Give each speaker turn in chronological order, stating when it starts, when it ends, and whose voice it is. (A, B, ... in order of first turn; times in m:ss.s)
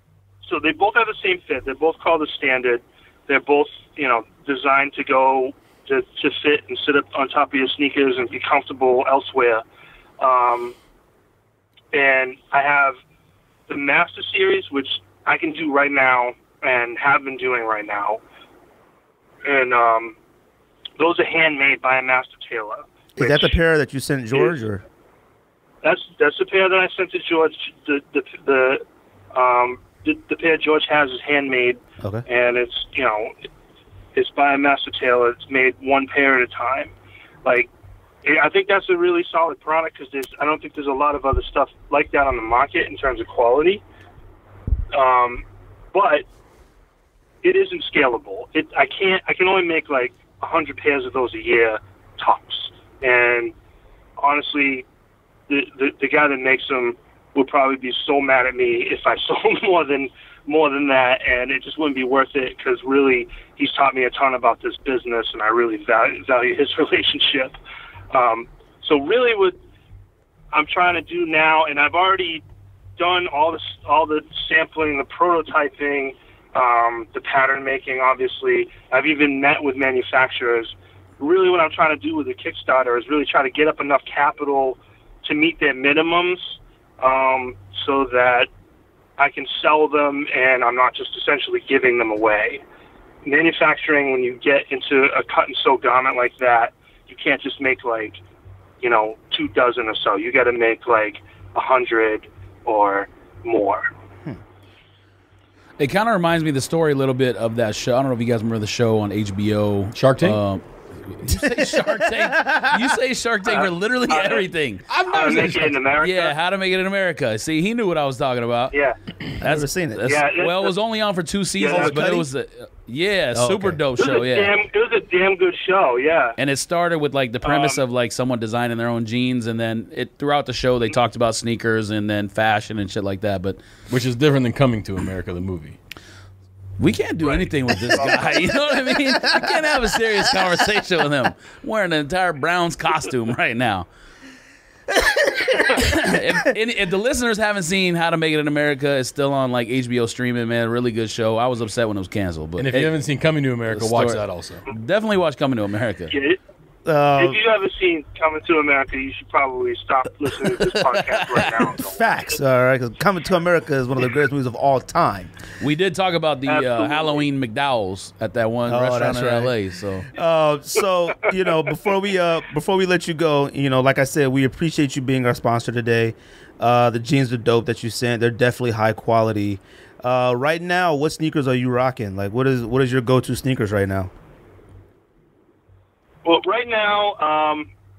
0:00.4-0:09.6 A
0:10.2-0:10.7 A
0:11.9-0:12.9 A
0:13.7-0:18.2 A
0:19.4-0:20.2 A
0:21.0-0:23.6 A
0:23.2-0:24.8 B
0:25.8-0:33.3 A
0:34.1-0:36.9 A
0:37.4-0:37.7 A
0:38.2-0:43.8 A
0:44.9-0:46.2 A
0:47.4-0:53.5 A
0:54.2-0:54.8 A
0:55.5-1:07.6 A
1:08.1-1:09.6 A
1:10.5-1:12.4 A
1:13.0-1:28.5 A
1:29.2-1:32.6 A
1:33.2-1:38.2 A
1:38.8-1:43.9 A
1:45.8-1:54.9 C
1:49.9-1:50.4 D
1:51.3-1:53.0 B
1:53.5-1:54.5 A
1:54.9-1:55.8 D
1:55.1-1:56.3 A
1:56.0-1:58.7 C
1:59.4-2:00.1 B
1:59.4-2:04.5 C
2:00.0-2:00.7 A
2:01.6-2:01.9 A
2:01.7-2:02.3 B
2:03.3-2:03.8 B
2:04.0-2:06.4 A
2:06.4-2:13.6 C
2:07.4-2:07.8 A
2:13.9-2:15.8 D
2:16.8-2:23.9 C
2:17.2-2:18.5 A
2:19.0-2:20.0 B
2:24.9-2:26.5 B
2:25.7-2:32.9 C
2:32.6-2:34.6 D
2:33.7-2:36.1 C
2:36.1-2:36.4 A
2:36.8-2:37.4 B
2:37.2-2:42.4 A
2:40.8-2:41.7 C
2:41.8-2:45.3 B
2:45.6-2:50.1 C
2:46.5-2:47.2 A
2:48.7-2:49.5 B
2:50.1-3:04.1 B
3:06.2-3:07.7 A